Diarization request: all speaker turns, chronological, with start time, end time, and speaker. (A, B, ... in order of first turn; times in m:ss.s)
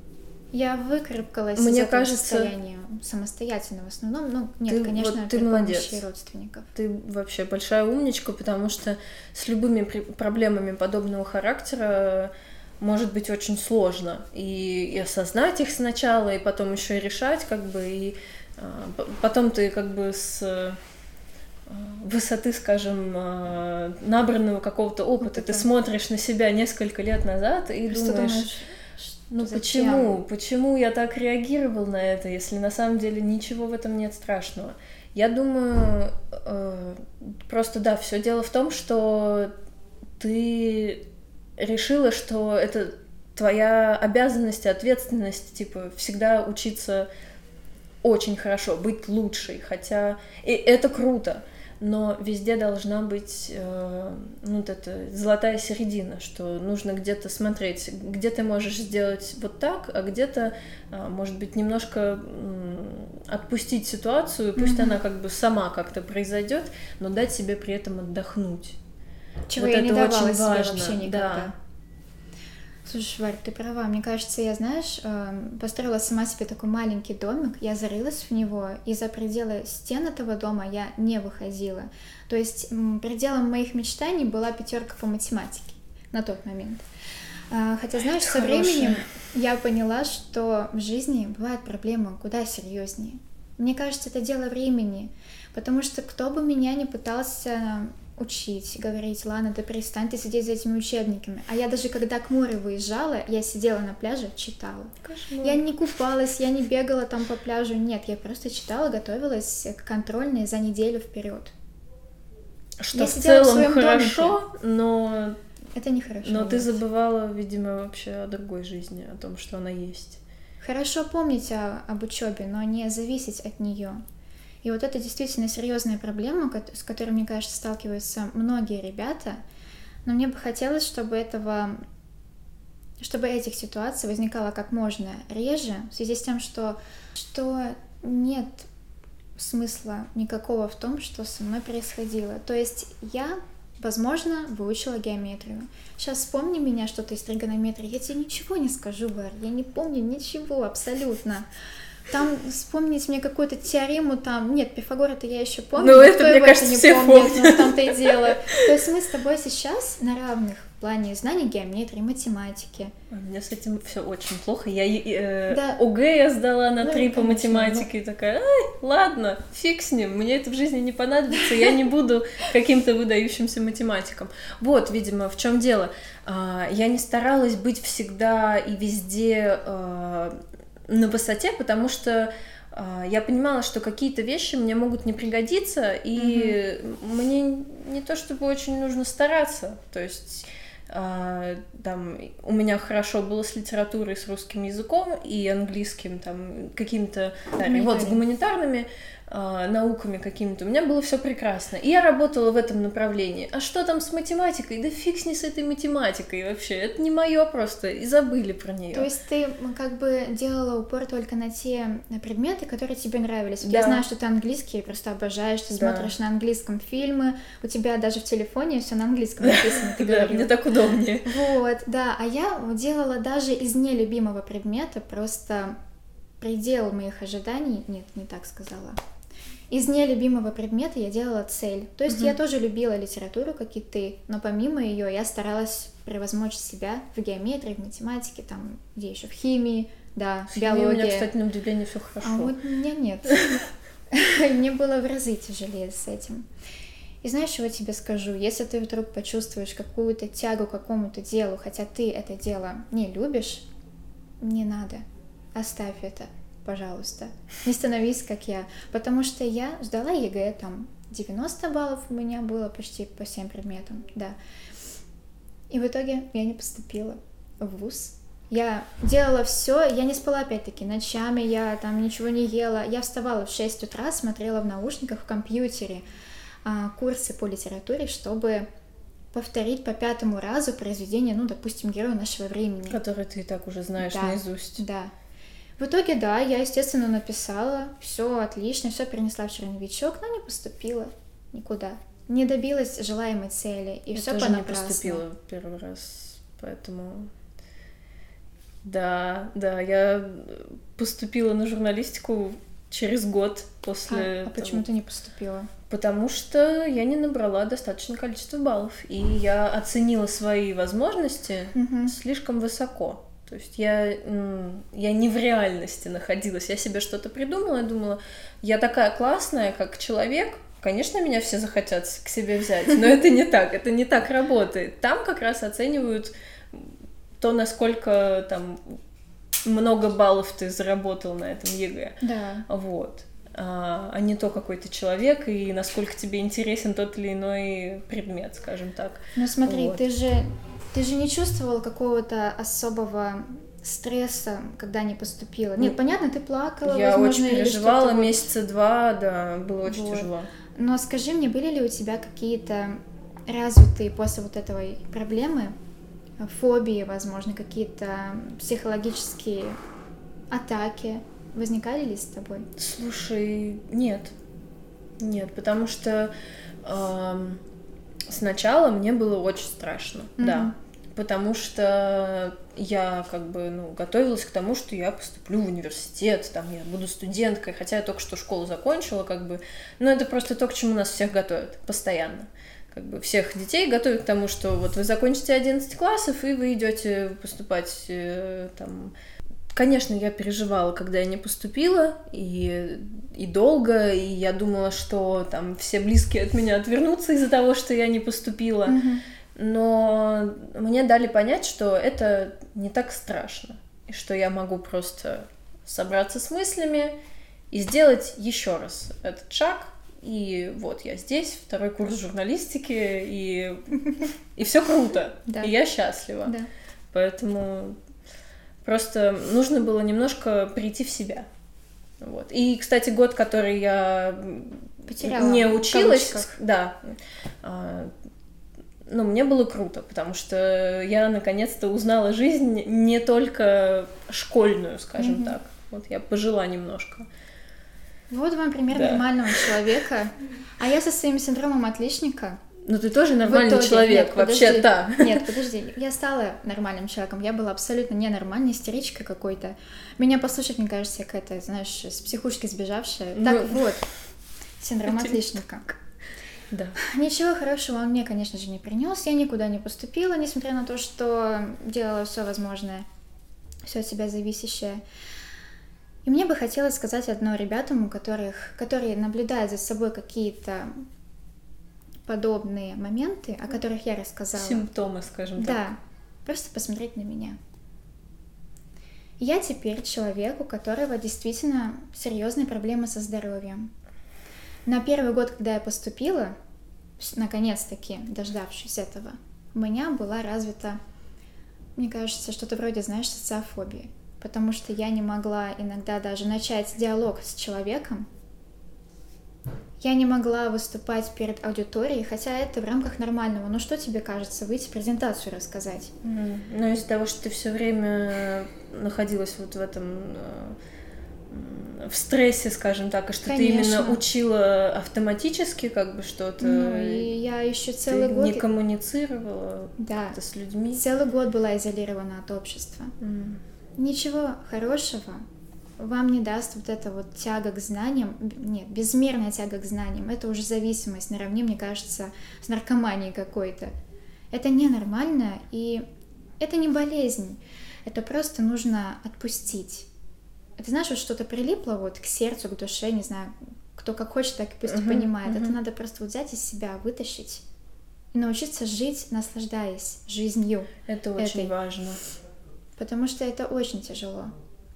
0:00.5-0:06.7 A
0:01.6-0:02.5 B
0:04.7-0:06.0 B
0:06.7-0:20.8 B
0:21.7-0:28.5 B
0:25.2-0:25.7 A
0:27.9-0:30.2 A
0:29.3-0:39.5 B
0:40.2-0:41.0 B
0:41.6-0:47.1 B
0:48.0-1:08.8 B
1:04.6-1:05.0 A
1:09.5-1:11.5 A
1:09.6-1:11.5 B
1:12.8-1:26.8 A
1:27.5-1:51.5 A
1:28.0-1:29.1 B
1:45.0-1:45.6 B
1:52.8-1:55.4 B
1:52.9-1:54.4 A
1:55.7-1:56.8 A
1:56.2-2:00.2 B
2:00.6-2:04.0 A
2:04.6-2:09.4 A
2:10.0-2:11.8 A
2:13.0-2:18.7 A
2:19.4-2:31.5 A
2:32.1-2:42.9 A
2:35.8-2:38.7 B
2:43.1-3:29.1 B
2:45.5-2:45.8 A
2:46.8-2:47.9 A
3:06.2-3:06.6 A
3:17.6-3:18.2 A
3:28.9-3:40.5 A
3:33.6-3:34.0 B
3:35.7-3:36.1 B
3:39.4-3:41.3 B
3:41.2-3:45.8 A
3:46.4-3:49.0 A
3:49.7-4:01.3 A
3:52.1-3:52.3 B
4:00.5-4:02.5 B
4:02.2-4:03.6 A
4:04.1-4:06.5 A
4:07.2-4:13.6 A
4:14.4-4:24.4 A
4:25.7-4:36.0 A
4:36.6-4:38.6 A
4:39.3-4:43.0 A
4:42.9-4:44.8 B
4:44.0-4:45.1 A
4:45.8-4:55.2 A
4:54.1-4:57.3 B
4:58.8-5:04.8 B
5:04.1-5:05.7 A
5:05.9-5:29.0 B
5:11.7-5:12.1 A
5:29.6-5:40.0 B
5:32.2-5:32.6 A
5:39.4-5:48.5 A
5:46.8-5:50.5 B
5:49.8-5:55.7 A
5:56.4-5:59.8 A
6:00.5-6:02.7 A
6:02.8-6:04.3 B
6:05.2-6:07.6 B
6:08.3-6:29.1 B
6:10.4-6:10.7 A
6:29.7-6:39.0 B
6:38.8-6:39.2 A
6:39.5-6:47.1 B
6:47.7-6:56.5 B
6:55.5-6:55.7 A
6:57.1-6:58.0 B
6:58.8-7:01.4 B
7:02.2-7:08.1 B
7:05.0-7:06.5 A
7:09.1-7:17.3 B
7:15.2-7:15.6 A
7:18.3-7:22.6 A
7:18.9-7:19.8 B
7:22.8-7:25.4 B
7:23.4-7:34.1 A
7:33.3-7:33.9 B
7:34.8-7:35.9 A
7:35.0-7:35.4 B
7:36.7-7:37.0 B
7:37.0-7:43.0 A
7:43.8-7:45.0 A
7:46.2-7:51.0 A
7:52.3-7:54.8 A
7:54.5-7:55.9 B
7:55.6-7:57.6 A
7:59.4-8:03.9 A
8:04.8-8:06.5 A
8:07.2-8:11.0 A
8:12.0-8:18.3 A
8:20.0-8:26.1 A
8:26.2-8:30.8 B
8:31.5-8:37.3 B
8:33.4-8:34.2 A
8:36.6-8:38.6 A
8:38.1-8:41.0 B
8:40.0-8:40.4 A
8:40.9-8:43.1 A
8:43.2-8:43.6 B
8:44.0-8:45.4 A
8:46.0-8:53.9 A
8:54.5-8:56.0 A
8:56.6-9:00.1 A
9:00.8-9:07.6 A
9:04.8-9:05.8 B
9:08.3-9:11.7 A
9:11.1-9:12.2 B
9:13.0-9:14.5 A